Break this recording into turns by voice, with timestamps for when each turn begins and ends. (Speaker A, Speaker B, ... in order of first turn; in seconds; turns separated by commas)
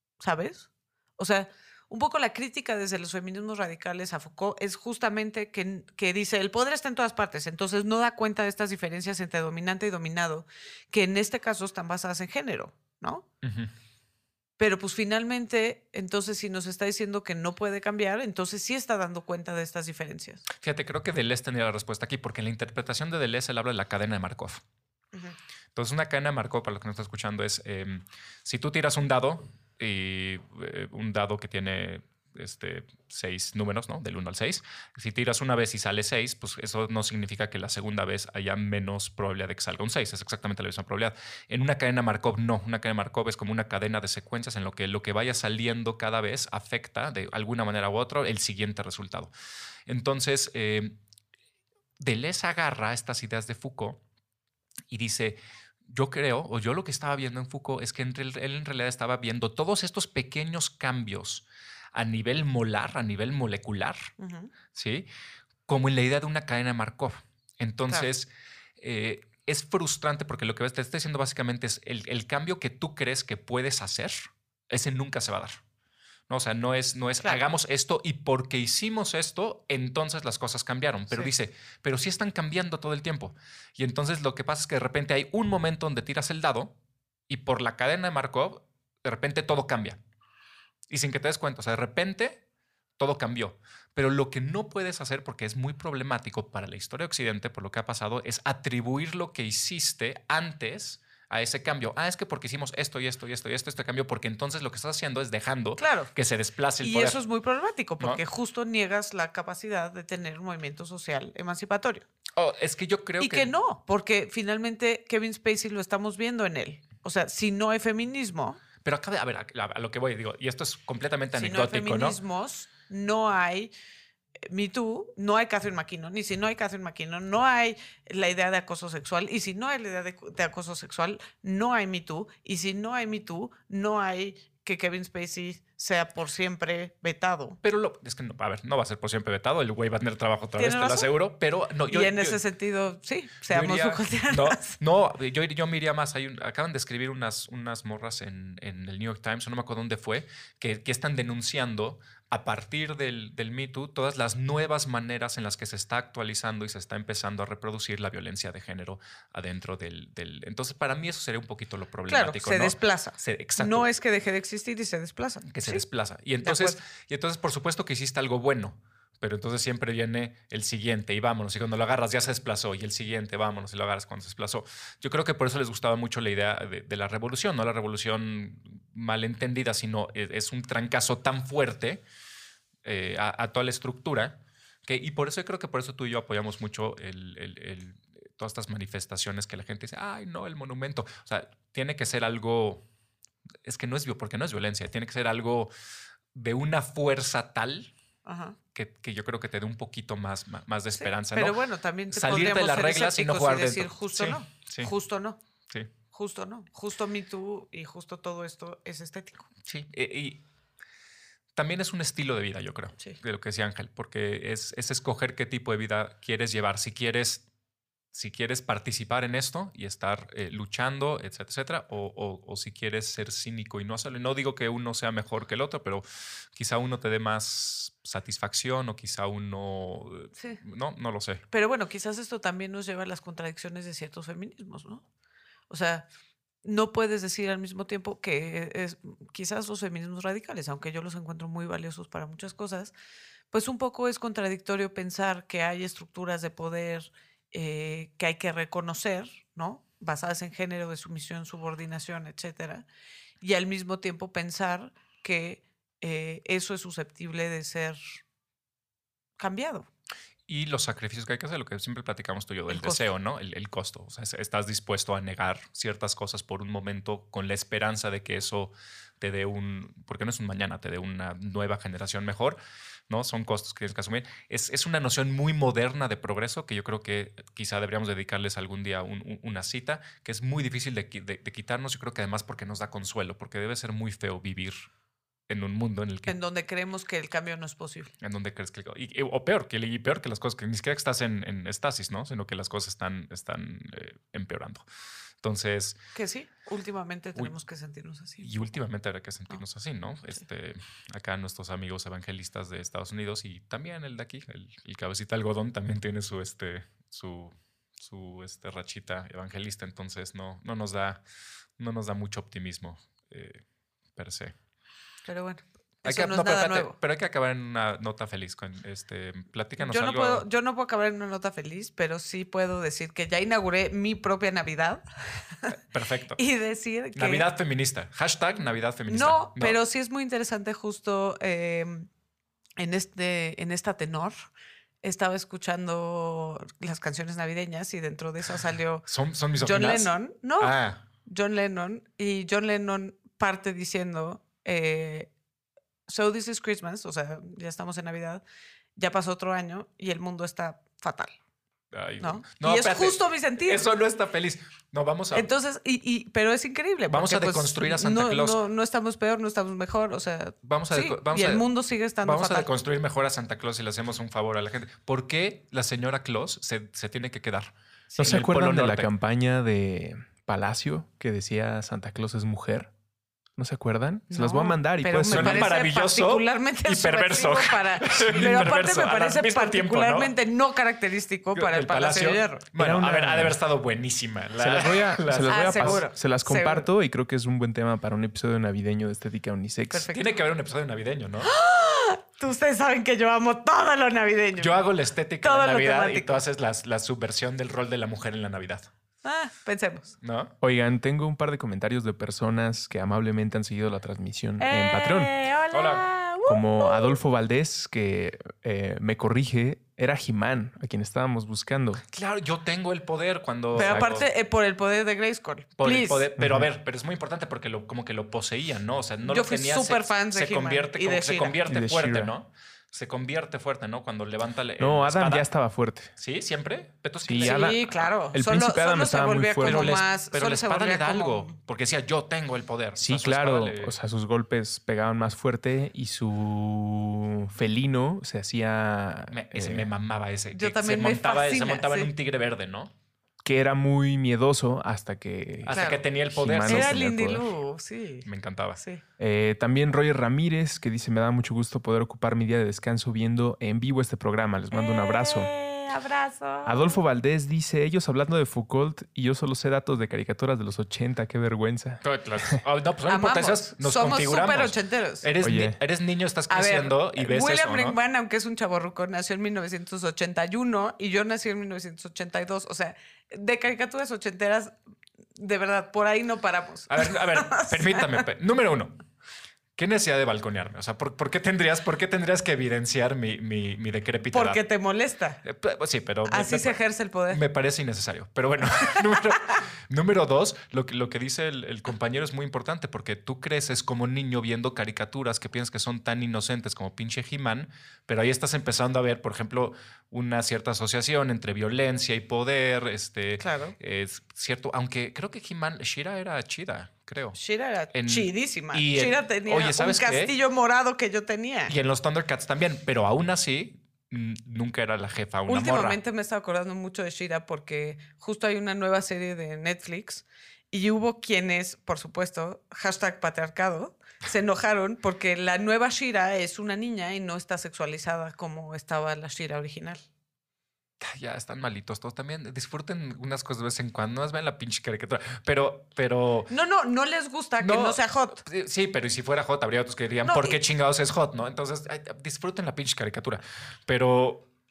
Speaker A: 0.2-13.2, Speaker B: 13.4-13.7, Speaker A: 14.6-20.4, Speaker B: 20.6-24.6, Speaker B: 25.7-49.3, Speaker B: 49.9-51.0, Speaker B: 52.0-54.0, Speaker B: 54.9-55.4, Speaker B: 55.9-64.1, Speaker A: 64.2-64.5, Speaker B: 64.7-65.1, Speaker B: 65.7-68.3, Speaker B: 68.8-75.6, Speaker B: 76.3-86.7, Speaker B: 87.3-90.0, Speaker B: 90.9-92.4, Speaker B: 93.0-107.2, Speaker A: 105.8-106.1, Speaker A: 106.8-112.0, Speaker B: 112.3-113.5, Speaker A: 113.2-118.6, Speaker B: 118.8-122.2, Speaker A: 121.3-123.7, Speaker A: 124.4-137.6, Speaker B: 137.6-142.4, Speaker A: 140.6-141.1, Speaker A: 141.9-144.8, Speaker B: 143.5-163.9, Speaker A: 162.1-165.8, Speaker B: 165.4-182.0, Speaker A: 166.4-166.8, Speaker B: 182.8-192.8, Speaker B: 193.6-195.7, Speaker B: 196.3-197.9, Speaker A: 198.2-198.6, Speaker B: 198.7-201.5, Speaker A: 201.0-205.4, Speaker B: 202.1-204.9, Speaker A: 206.1-209.5, Speaker B: 209.7-210.4, Speaker B: 211.6-217.4, Speaker B: 218.1-231.4, Speaker A: 231.5-235.0, Speaker A: 235.7-236.1, Speaker A: 236.6-242.9, Speaker A: 243.5-252.8, Speaker A: 253.4-258.2, Speaker A: 259.4-259.9, Speaker B: 260.5-272.6, Speaker A: 262.7-263.1, Speaker B: 273.1-284.8, Speaker B: 285.5-286.4, Speaker A: 286.3-288.1, Speaker B: 288.2-294.8, Speaker B: 295.4-296.0, Speaker A: 296.1-298.5, Speaker B: 298.4-311.2, Speaker B: 311.8-313.6, Speaker B: 314.1-314.5, Speaker A: 315.2-316.9, Speaker B: 316.0-320.4, Speaker A: 319.8-325.7, Speaker B: 325.7-326.4, Speaker A: 326.4-327.4, Speaker B: 327.1-329.8, Speaker A: 329.1-332.1, Speaker A: 332.8-334.5, Speaker A: 335.0-339.1, Speaker B: 339.1-341.0, Speaker A: 339.6-345.3, Speaker A: 346.1-348.4, Speaker A: 348.9-351.4, Speaker B: 351.9-355.5, Speaker A: 352.2-353.8, Speaker A: 355.3-362.7, Speaker B: 357.1-358.6, Speaker B: 360.6-361.7, Speaker B: 362.2-369.1, Speaker C: 368.2-372.9, Speaker C: 373.6-375.6, Speaker A: 374.3-382.7, Speaker B: 375.2-380.3, Speaker C: 378.3-378.6, Speaker B: 381.5-386.0, Speaker C: 382.8-383.6, Speaker C: 384.6-390.1, Speaker A: 385.5-386.9, Speaker A: 389.9-390.3, Speaker B: 390.1-391.5, Speaker A: 391.4-394.8, Speaker B: 394.6-398.9, Speaker A: 395.4-396.4, Speaker A: 399.2-400.1, Speaker B: 400.2-400.5, Speaker C: 400.6-405.3, Speaker A: 404.6-407.2, Speaker B: 405.7-406.1, Speaker C: 406.4-412.0, Speaker B: 412.1-414.2, Speaker A: 413.7-416.2, Speaker B: 415.8-425.5, Speaker C: 416.4-416.7, Speaker A: 419.2-421.6, Speaker C: 421.7-422.3, Speaker C: 424.8-426.1, Speaker B: 426.1-428.1, Speaker C: 427.2-427.8, Speaker A: 427.4-431.5, Speaker C: 428.3-430.0, Speaker B: 429.6-433.9, Speaker C: 432.9-439.9, Speaker B: 439.3-442.9, Speaker A: 440.5-442.1, Speaker C: 443.4-447.4, Speaker B: 445.6-447.0, Speaker A: 445.7-446.0, Speaker A: 446.7-449.0, Speaker B: 448.2-448.8, Speaker C: 449.2-455.5, Speaker A: 454.7-457.0, Speaker C: 456.6-462.0, Speaker B: 462.0-468.0, Speaker A: 463.1-465.3, Speaker C: 465.4-465.8, Speaker A: 466.5-474.7, Speaker A: 475.4-478.2, Speaker B: 476.9-479.0, Speaker B: 479.8-484.6, Speaker A: 484.3-485.4, Speaker B: 485.4-507.4, Speaker A: 486.3-487.4, Speaker A: 488.9-489.3, Speaker A: 503.4-503.7, Speaker A: 507.4-511.7, Speaker B: 507.9-510.3, Speaker B: 511.7-516.0, Speaker A: 515.5-530.0, Speaker B: 531.0-536.5, Speaker A: 536.5-538.4, Speaker B: 537.6-544.5, Speaker A: 540.2-540.6